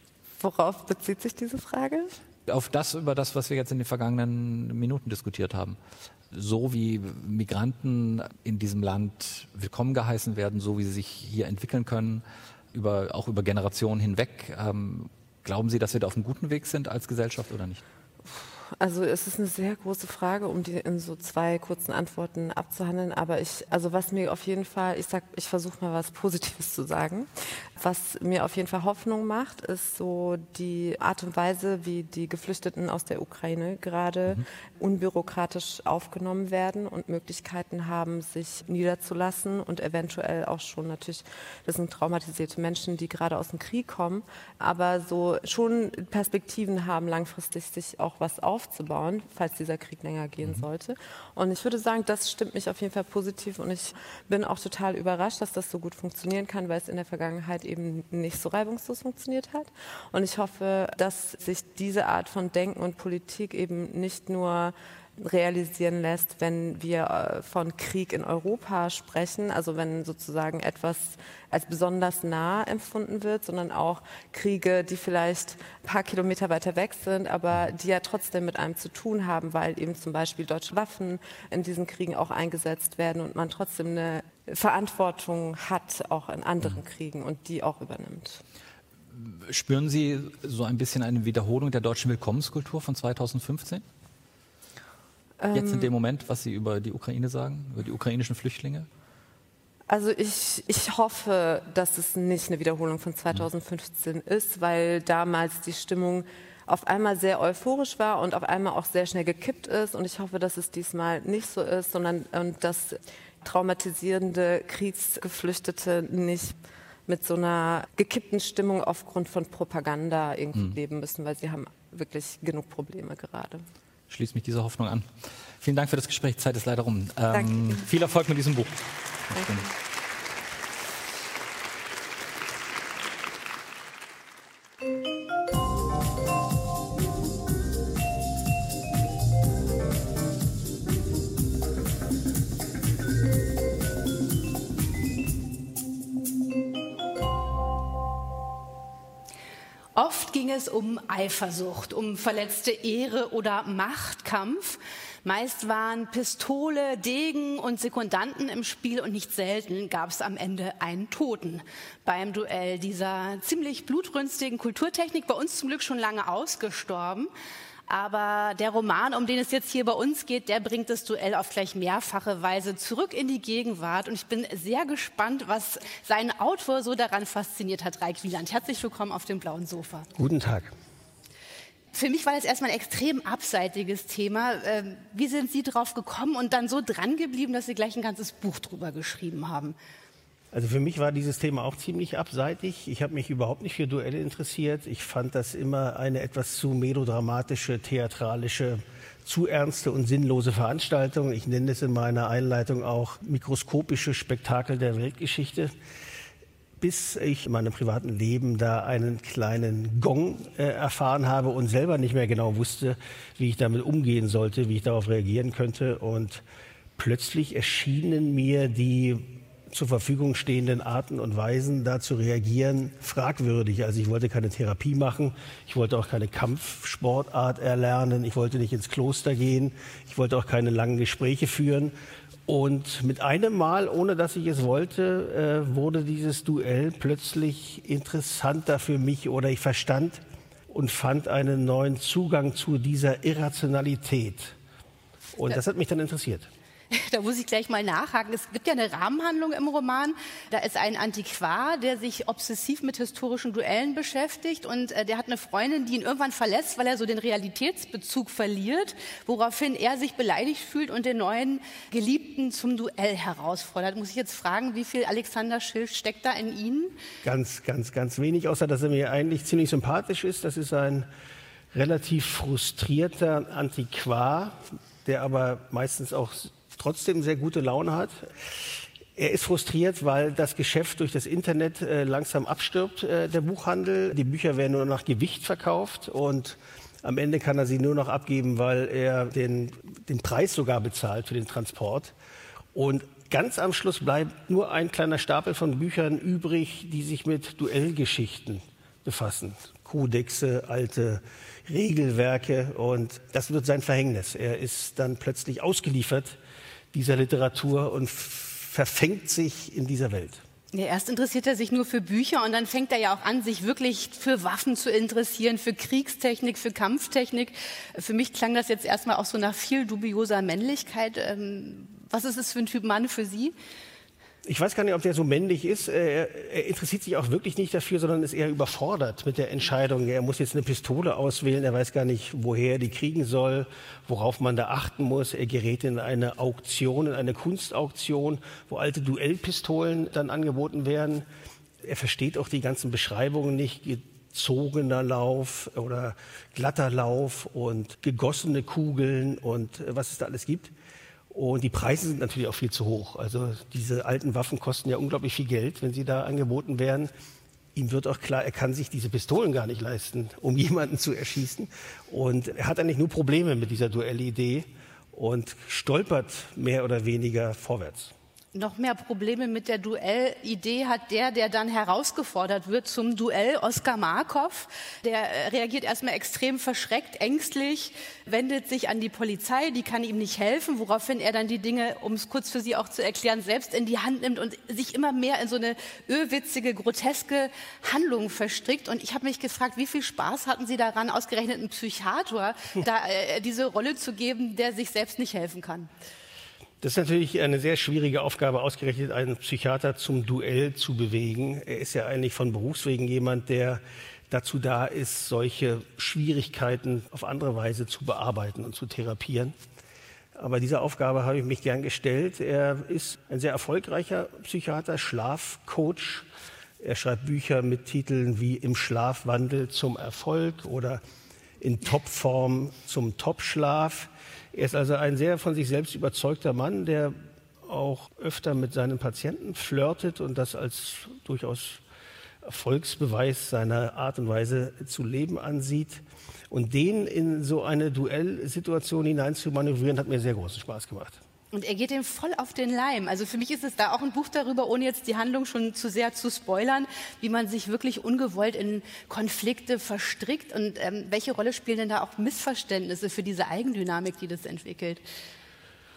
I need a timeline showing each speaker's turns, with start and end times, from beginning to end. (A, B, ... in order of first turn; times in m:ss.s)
0:00.4-0:02.1 A
0:02.5-0:05.8 B
0:06.3-0:17.8 B
0:18.3-1:28.4 A
1:29.1-1:33.8 B
1:35.4-1:35.9 A
1:35.5-1:38.9 B
1:39.9-1:56.6 A
1:57.1-2:03.6 A
2:04.1-2:05.1 B
2:05.6-2:09.7 B
2:07.3-2:07.9 A
2:09.4-2:09.6 A
2:30.0-2:47.3 C
2:47.9-3:00.1 C
3:00.2-3:00.7 D
3:01.9-3:09.8 C
3:10.5-3:25.7 D
3:26.8-3:36.4 D
3:37.0-3:51.9 D
3:52.5-4:04.5 D
4:05.3-4:06.5 D
4:06.9-4:27.0 C
4:27.2-4:31.1 D
4:31.7-4:38.3 D
4:39.2-4:52.1 D
4:52.7-5:06.4 D
5:06.9-5:10.4 D
5:10.7-5:23.5 C
5:24.4-5:41.3 D
5:41.8-5:50.7 D
5:51.3-5:57.1 D
5:57.7-6:08.1 D
6:08.5-6:35.9 C
6:36.8-6:49.5 D
6:50.3-6:56.3 D
6:56.8-7:01.0 D
7:01.6-7:11.8 D
7:12.4-7:21.2 D
7:21.5-7:35.0 C